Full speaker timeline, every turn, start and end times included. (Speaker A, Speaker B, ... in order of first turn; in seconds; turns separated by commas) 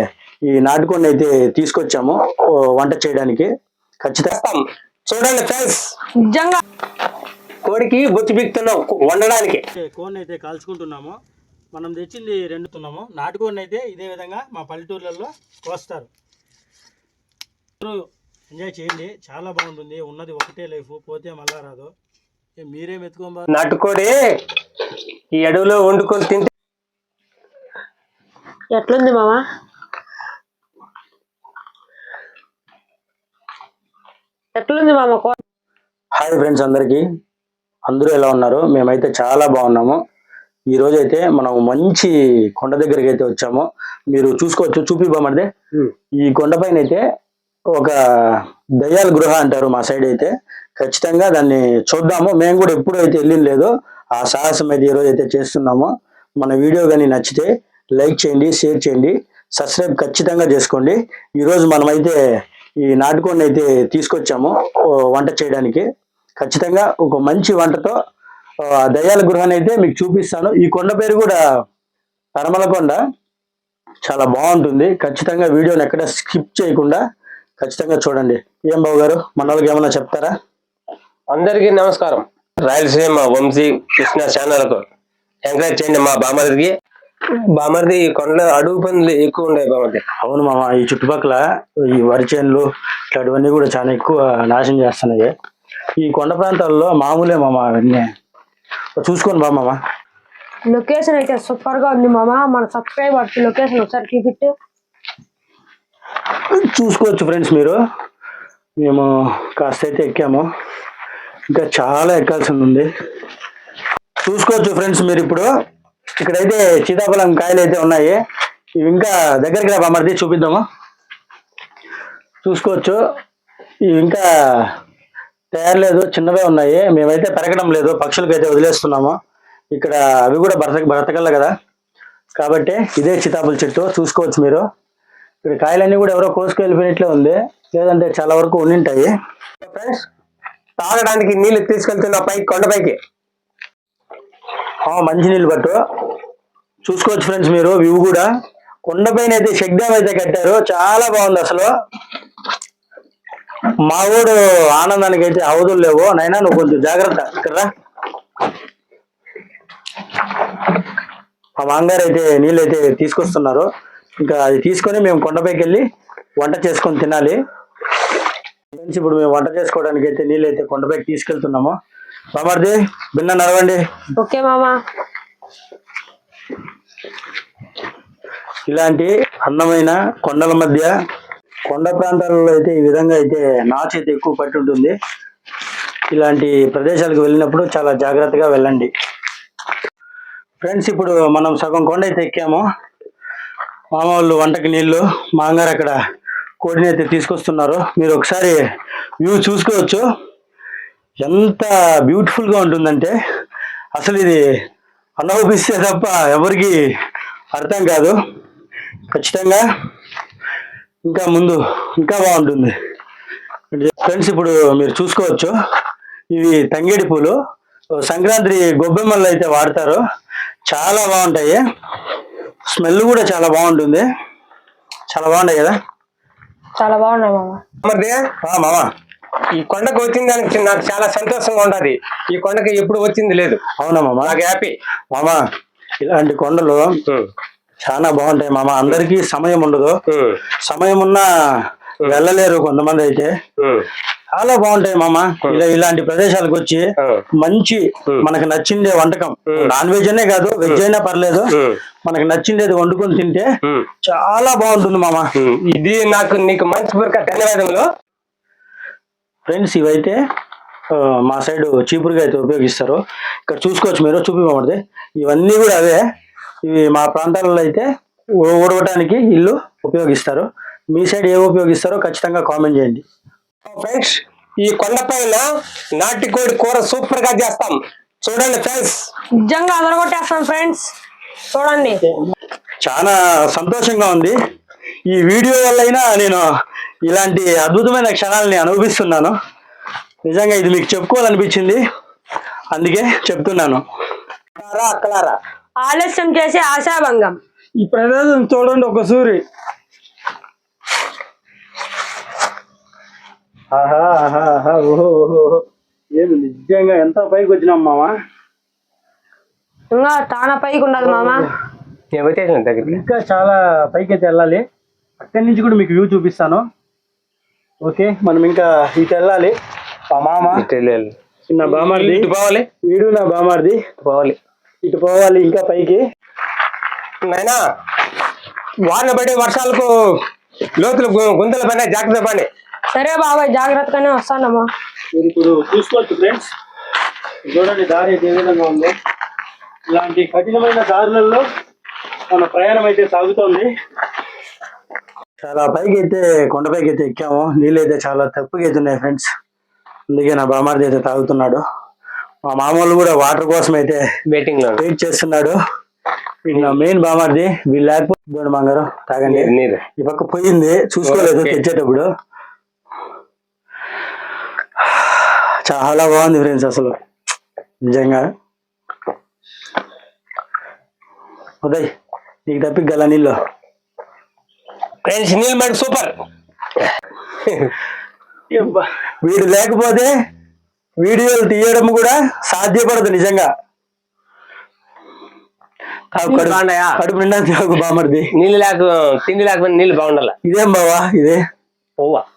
Speaker A: 0.5-3.5, Speaker A: 4.0-4.3, Speaker B: 4.3-5.8, Speaker C: 6.2-6.6, Speaker B: 7.7-9.6, Speaker A: 9.7-11.2, Speaker A: 11.7-16.1, Speaker A: 17.8-21.9, Speaker A: 22.6-23.5, Speaker B: 23.5-24.1, Speaker B: 25.4-26.5, Speaker C: 28.7-29.4, Speaker C: 34.5-35.4, Speaker A: 36.1-37.0, Speaker A: 37.9-40.0, Speaker A: 40.7-45.5, Speaker A: 46.2-47.0, Speaker A: 47.8-62.1, Speaker A: 62.8-65.8, Speaker A: 66.4-67.9, Speaker A: 68.7-71.4, Speaker A: 72.3-73.0, Speaker A: 74.0-77.0, Speaker A: 77.6-80.3, Speaker B: 81.3-84.8, Speaker B: 85.5-86.7, Speaker B: 87.6-90.0, Speaker A: 90.2-95.3, Speaker A: 96.0-98.1, Speaker A: 99.0-99.8, Speaker C: 100.7-104.5, Speaker A: 106.5-107.8, Speaker A: 108.8-110.5, Speaker A: 111.5-112.9, Speaker A: 114.2-115.5, Speaker A: 116.2-118.2, Speaker A: 118.8-120.6, Speaker A: 122.4-123.0, Speaker A: 123.9-124.7, Speaker A: 125.5-129.2, Speaker A: 129.7-131.5, Speaker A: 132.4-134.6, Speaker A: 135.4-139.1, Speaker B: 139.6-140.0, Speaker B: 140.8-142.9, Speaker A: 144.8-145.8, Speaker A: 146.8-148.3, Speaker A: 148.8-151.7, Speaker A: 153.9-157.7, Speaker A: 161.6-163.7, Speaker A: 164.2-165.8, Speaker A: 166.4-167.4, Speaker A: 168.7-171.7, Speaker A: 172.3-173.8, Speaker C: 174.2-174.8, Speaker A: 178.7-180.9, Speaker A: 181.7-184.9, Speaker A: 186.1-188.9, Speaker A: 190.6-192.6, Speaker A: 193.9-195.9, Speaker A: 196.6-198.5, Speaker A: 199.2-200.0, Speaker A: 201.2-203.1, Speaker A: 203.9-204.4, Speaker A: 205.2-206.8, Speaker A: 207.5-208.1, Speaker A: 209.1-209.6, Speaker A: 211.1-212.7, Speaker A: 213.7-215.5, Speaker A: 216.3-217.3, Speaker A: 218.0-220.0, Speaker A: 220.7-221.6, Speaker A: 222.7-224.0, Speaker A: 225.1-225.7, Speaker C: 226.8-227.6, Speaker B: 227.8-228.1, Speaker A: 228.4-228.9, Speaker B: 229.6-233.6, Speaker A: 233.8-234.3, Speaker B: 234.2-234.8, Speaker A: 235.1-235.4, Speaker A: 236.0-236.9, Speaker A: 237.8-239.9, Speaker B: 240.1-240.4, Speaker A: 240.6-241.2, Speaker A: 242.1-243.3, Speaker A: 244.3-246.8, Speaker A: 247.4-251.5, Speaker A: 252.1-253.4, Speaker A: 254.0-255.2, Speaker B: 255.4-257.8, Speaker A: 259.5-260.1, Speaker A: 260.9-266.0, Speaker A: 266.6-267.9, Speaker A: 268.4-273.0, Speaker B: 273.7-275.4, Speaker B: 276.0-279.1, Speaker C: 279.4-280.9, Speaker C: 281.5-282.0, Speaker A: 282.8-284.3, Speaker A: 285.1-286.4, Speaker A: 287.1-289.3, Speaker A: 290.3-291.8, Speaker A: 292.7-293.8, Speaker B: 294.6-295.4, Speaker C: 295.8-297.3, Speaker A: 297.8-299.4, Speaker A: 303.7-305.6, Speaker A: 306.2-308.1, Speaker C: 309.9-311.5, Speaker A: 311.0-311.4, Speaker B: 312.1-313.0, Speaker A: 312.8-314.6, Speaker A: 315.2-316.6, Speaker A: 317.8-319.5, Speaker A: 320.1-320.6, Speaker B: 320.5-321.1, Speaker A: 321.5-322.3, Speaker B: 321.6-322.6, Speaker A: 322.8-323.8, Speaker B: 324.0-324.4, Speaker A: 324.8-326.0, Speaker B: 327.2-327.6, Speaker B: 328.9-329.9, Speaker B: 330.8-332.5, Speaker C: 332.9-334.6, Speaker A: 335.1-336.5, Speaker A: 337.5-338.9, Speaker A: 339.9-341.4, Speaker A: 342.3-343.7, Speaker A: 345.4-349.3, Speaker A: 350.1-351.6, Speaker A: 352.5-354.0, Speaker B: 354.3-354.8, Speaker A: 354.8-355.6, Speaker A: 356.5-362.1, Speaker B: 356.5-356.8, Speaker B: 359.2-359.8, Speaker B: 361.0-361.6, Speaker A: 364.9-366.9, Speaker A: 367.9-368.2, Speaker A: 371.6-371.9, Speaker A: 372.5-373.4, Speaker B: 375.1-376.1, Speaker B: 377.5-377.7, Speaker A: 379.2-380.1, Speaker A: 381.0-383.5, Speaker A: 386.1-388.3, Speaker B: 386.3-386.9, Speaker B: 388.4-390.3, Speaker A: 390.4-391.4